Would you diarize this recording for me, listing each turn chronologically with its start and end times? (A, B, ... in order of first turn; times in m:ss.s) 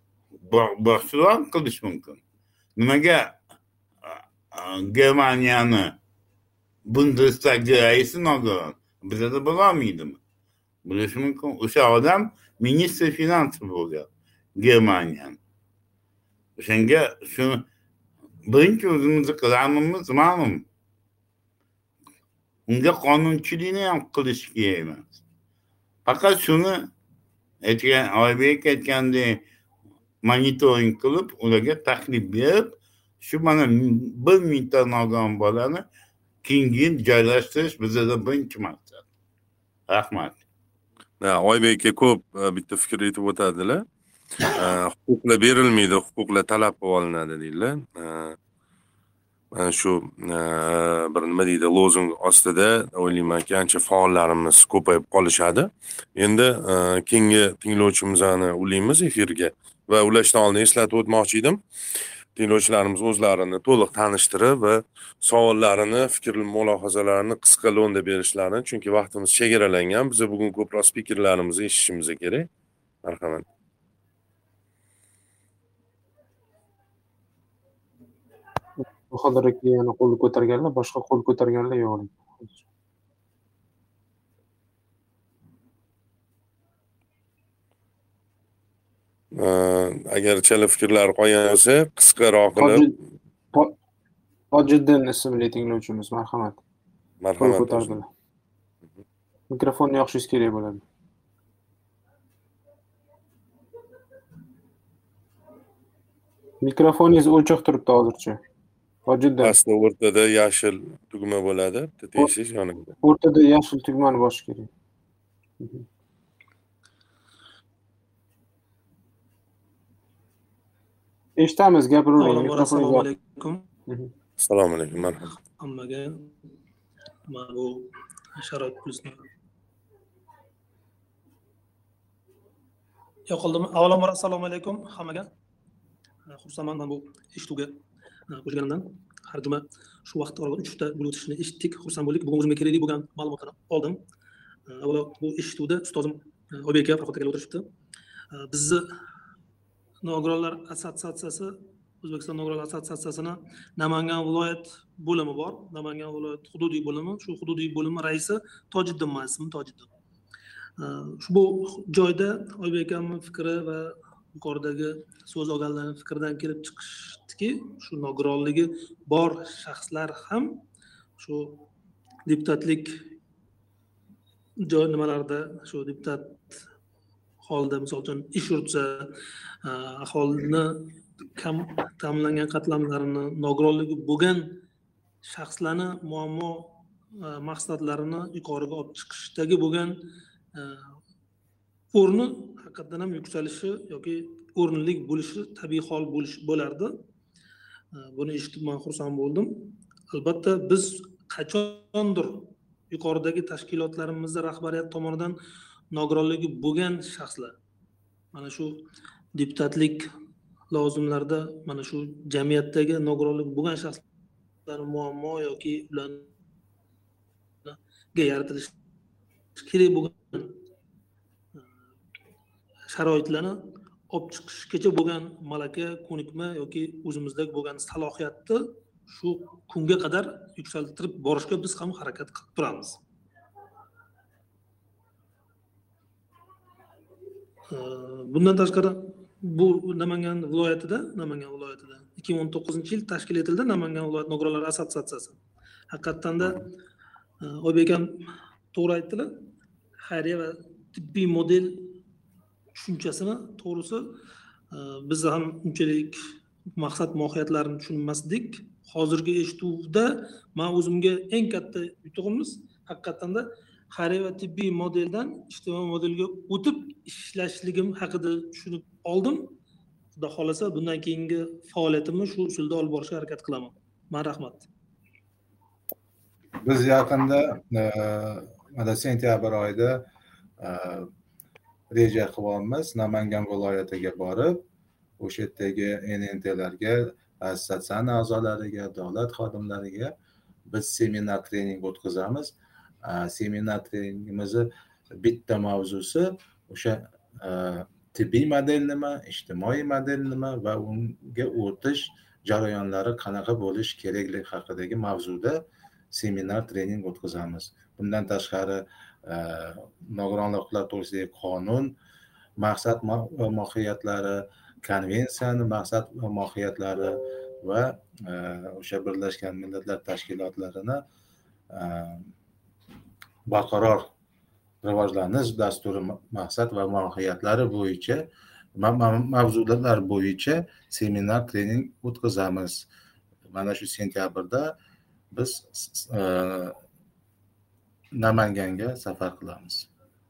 0:00.4-0:02.2 A
0:02.8-0:03.4 A
0:04.0-0:06.0 A
0:06.9-0:10.2 A
0:10.8-0:15.4 A
0:16.6-0:17.7 A
0:18.5-0:20.7 A
0:22.7-0:25.2 A
0:26.1-0:26.9 A
0:27.6-0:29.4 A
0:30.2-0:35.8 A
0:36.4-0:39.0 A
0:39.9-0:40.4 A
0:41.2-0:43.8 B
0:44.5-0:48.4 B
0:49.5-1:01.6 B
1:02.4-1:12.5 B
1:13.0-1:13.4 B
1:18.8-1:22.6 C
1:29.3-1:32.9 B
1:32.6-1:33.0 C
1:34.5-1:36.6 C
1:37.2-1:38.0 B
1:37.4-1:38.1 C
1:39.5-1:40.8 C
1:46.6-1:48.4 C
1:49.1-1:49.6 C
1:49.4-1:52.9 B
1:53.0-1:54.7 C
1:55.6-1:55.9 C
2:01.4-2:03.1 C
2:02.2-2:03.6 D
2:04.4-2:05.3 B
2:05.6-2:06.3 D
2:07.3-2:07.9 D
2:08.4-2:09.2 D
2:13.3-2:15.3 D
2:16.3-2:17.8 D
2:18.3-2:24.0 D
2:24.7-2:27.7 D
2:28.4-2:28.8 D
2:30.0-2:39.9 D
2:40.8-2:50.6 D
2:51.2-2:51.6 D
2:52.3-2:52.9 D
2:54.7-2:56.4 D
2:57.5-2:59.1 D
2:59.7-3:00.7 D
3:01.4-3:04.4 D
3:05.3-3:06.7 D
3:07.3-3:09.9 D
3:11.9-3:17.0 D
3:18.2-3:19.5 D
3:20.1-3:25.4 D
3:25.9-3:27.6 D
3:28.3-3:28.8 D
3:29.4-3:30.0 D
3:30.7-3:34.0 D
3:34.7-3:36.3 D
3:37.7-3:38.7 D
3:39.6-3:40.6 D
3:42.9-3:43.6 D
3:44.1-3:53.0 D
3:57.7-4:05.4 D
4:05.9-4:06.7 D
4:07.4-4:08.1 D
4:08.7-4:09.3 D
4:10.1-4:11.9 D
4:12.8-4:14.1 D
4:14.7-4:16.2 D
4:16.8-4:29.6 D
4:30.2-4:34.7 D
4:36.6-4:40.1 E
4:40.6-4:41.1 E
4:41.9-4:44.6 E
4:45.2-4:50.1 E
4:50.7-4:54.7 E
4:55.2-5:11.9 E
5:12.6-5:21.0 E
5:21.7-5:22.3 E
5:23.5-5:24.1 E
5:24.8-5:28.2 E
5:28.8-5:32.9 E
5:33.5-5:34.7 E
5:35.3-5:36.8 E
5:38.2-5:39.9 E